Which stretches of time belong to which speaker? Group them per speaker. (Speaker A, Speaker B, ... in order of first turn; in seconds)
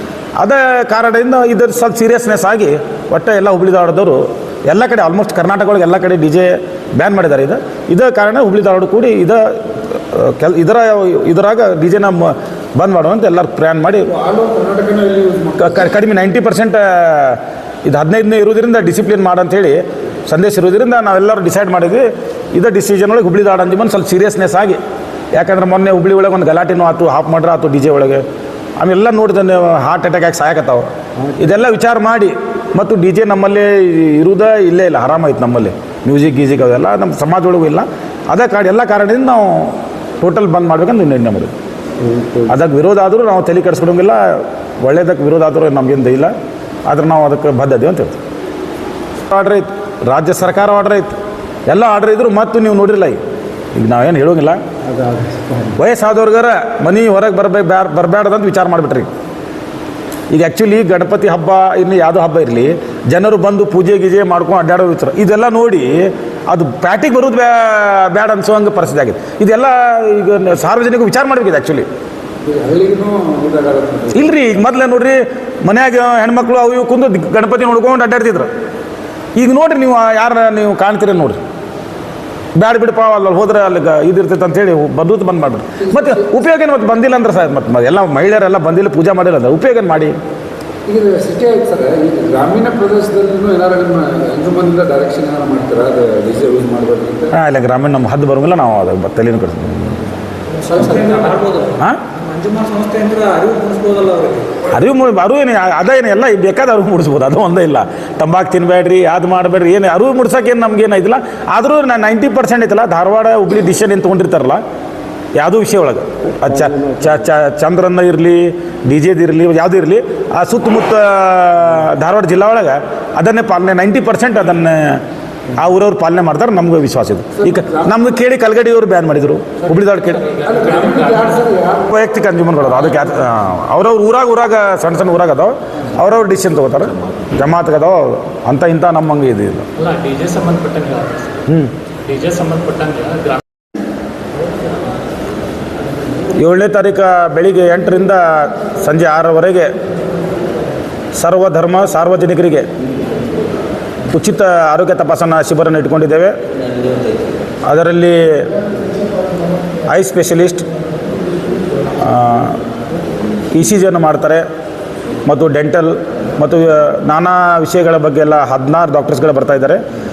Speaker A: 0.4-14.1, 15.6-24.8, 25.3-28.2, 28.8-41.5, 42.3-46.3, 46.9-48.2, 49.3-51.1, 51.7-53.2, 53.7-54.6, 55.7-59.1, 60.3-71.8, 74.1-78.5, 79.3-81.4, 82.5-90.2, 97.3-100.0, 101.8-102.0, 104.6-114.6, 115.3-125.0, 125.5-130.2, 131.9-139.7, 141.5-141.7, 146.3-149.7, 151.2-152.7, 154.1-156.4, 157.6-158.5, 159.9-160.7, 161.9-162.6, 163.5-164.4, 165.2-169.8
Speaker B: 14.1-15.9, 72.4-74.2, 85.8-86.2, 90.8-97.3, 100.6-101.6, 127.4-127.9, 130.4-131.9
Speaker C: 130.1-131.4, 139.8-141.4, 142.0-143.4